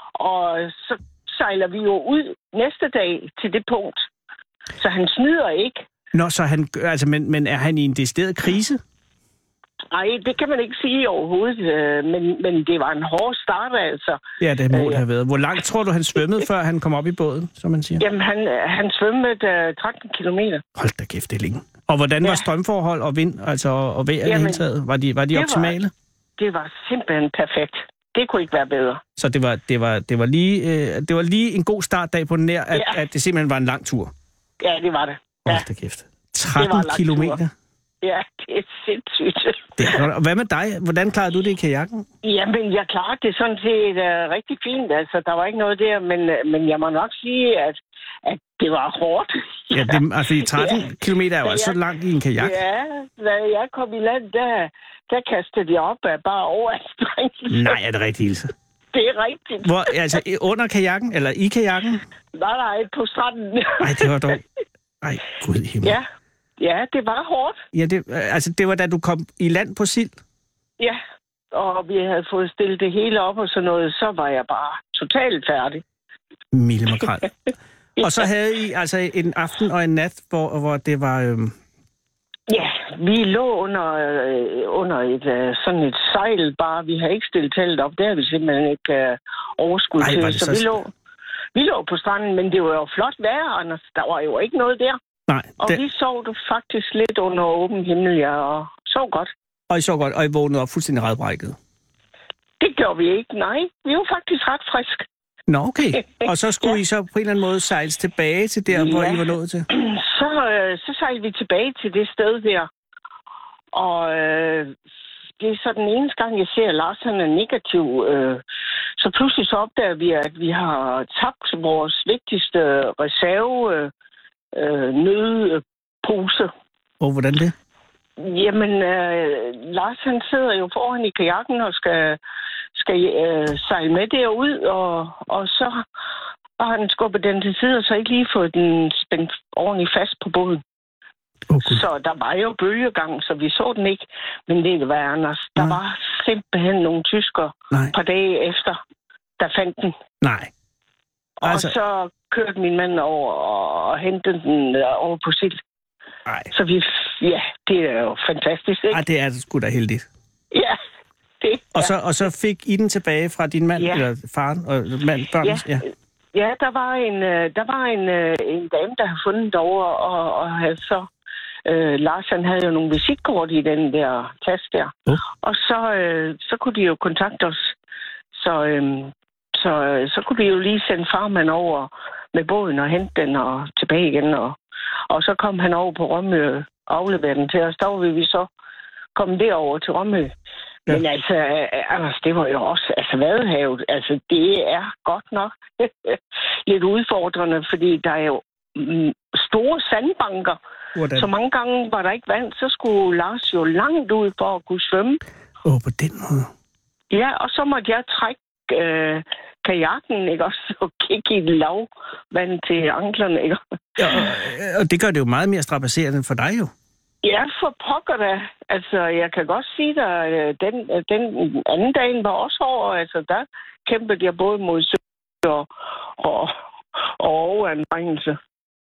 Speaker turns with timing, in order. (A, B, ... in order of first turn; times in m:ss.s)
0:00.2-0:04.1 A
0:04.8-0:05.9 A
0:06.1-0:08.8 B
0:09.9-0:14.2 A
0:14.4-0:18.0 B
0:14.7-0:15.0 A
0:18.0-0:20.6 A
0:20.8-0:25.9 B
0:24.2-0:24.6 A
0:25.3-0:25.8 A
0:26.4-0:29.0 A
0:29.2-0:34.1 B
0:32.7-0:33.0 A
0:34.6-0:35.6 A
0:35.5-0:37.5 B
0:36.6-0:37.4 A
0:38.0-0:40.0 A
0:39.8-0:42.1 B
0:42.2-0:50.0 A
0:49.7-0:52.6 B
0:50.5-0:50.9 A
0:51.4-0:51.8 A
0:52.4-0:57.7 A
0:57.5-0:58.5 B
0:58.9-0:59.9 A
0:59.6-1:02.0 B
1:02.3-1:04.1 A
1:03.8-1:04.4 B
1:05.0-1:06.0 B
1:06.6-1:07.6 A
1:07.7-1:10.2 B
1:11.5-1:15.8 A
1:16.5-1:17.3 B
1:18.0-1:21.5 B
1:22.5-1:30.9 A
1:30.0-1:30.8 B
1:31.6-1:35.0 A
1:35.3-1:35.8 B
1:35.6-1:39.3 A
1:39.7-1:41.6 B
1:42.6-1:45.1 A
1:45.5-1:49.7 B
1:46.2-1:46.8 A
1:48.7-1:52.7 A
1:53.7-1:54.7 A
1:55.4-1:58.4 A
1:59.0-2:03.9 A
2:04.5-2:06.5 A
2:07.0-2:07.5 B
2:08.2-2:12.2 A
2:12.8-2:15.8 A
2:16.6-2:20.6 A
2:21.5-2:21.8 B
2:21.6-2:28.8 A
2:29.4-2:30.0 A
2:30.2-2:30.5 B
2:31.4-2:35.6 A
2:31.4-2:31.7 B
2:36.5-2:39.0 A
2:38.9-2:40.1 B
2:40.5-2:40.8 A
2:41.4-2:41.9 A
2:41.8-2:45.8 B
2:43.8-2:44.0 A
2:46.3-2:51.1 A
2:51.6-2:57.7 A
2:58.3-3:04.6 A
3:05.1-3:08.5 A
3:09.2-3:10.3 A
3:10.9-3:20.6 A
3:21.0-3:21.3 B
3:21.2-3:25.2 A
3:25.6-3:26.5 B
3:27.1-3:34.3 A
3:34.0-3:36.7 B
3:37.2-3:48.4 A